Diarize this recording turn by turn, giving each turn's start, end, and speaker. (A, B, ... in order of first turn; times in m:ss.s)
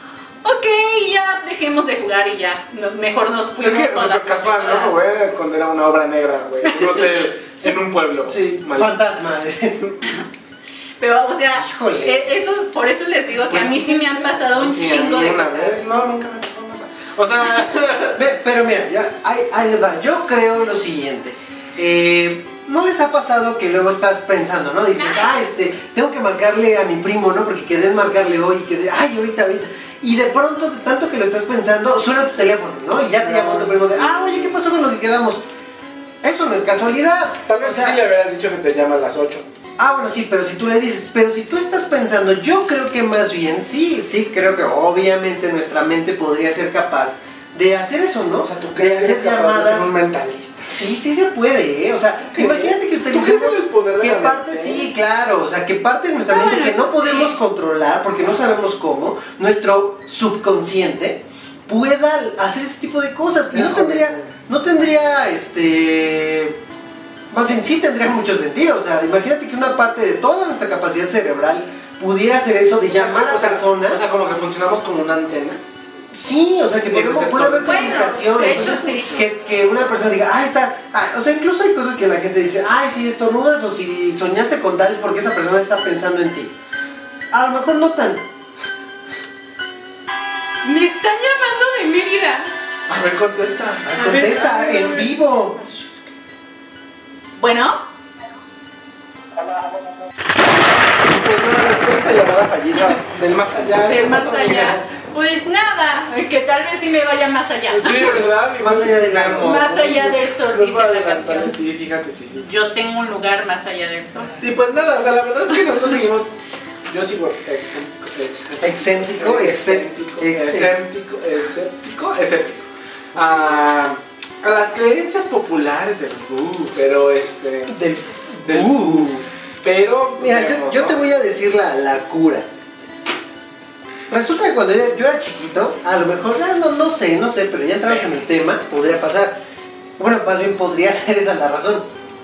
0:00.4-0:05.0 A
0:03.6-0:08.9 B
0:07.6-0:09.9 C
0:11.0-0:15.8 A
0:11.5-0:12.3 C
0:13.5-0:14.7 C
0:14.6-0:18.2 B
0:17.7-0:35.4 C
0:25.0-0:25.4 A
0:33.2-0:34.3 B
0:36.2-0:38.0 C
0:37.5-0:39.4 B
0:39.8-0:49.9 C
0:48.4-0:50.8 B
0:50.6-1:06.6 C
0:52.3-0:54.9 B
0:56.3-0:57.4 A
1:03.5-1:04.4 B
1:07.3-1:14.1 C
1:12.8-1:15.6 B
1:16.1-1:26.5 C
1:16.9-1:19.3 B
1:17.6-1:19.2 A
1:27.3-1:28.2 C
1:30.6-1:32.5 A
1:32.9-1:34.8 B
1:33.8-1:35.7 C
1:34.0-1:35.1 A
1:37.4-1:37.8 A
1:41.0-1:44.9 B
1:43.8-1:48.2 A
1:47.7-1:52.5 B
1:48.0-1:50.2 C
1:49.4-1:51.6 A
1:52.4-1:54.4 A
1:54.4-1:56.3 B
1:56.9-2:07.9 B
1:58.6-2:00.9 C
2:03.1-2:03.6 C
2:07.7-2:09.2 C
2:08.4-2:11.0 B
2:10.2-2:12.5 C
2:14.1-2:19.4 C
2:20.0-2:21.8 C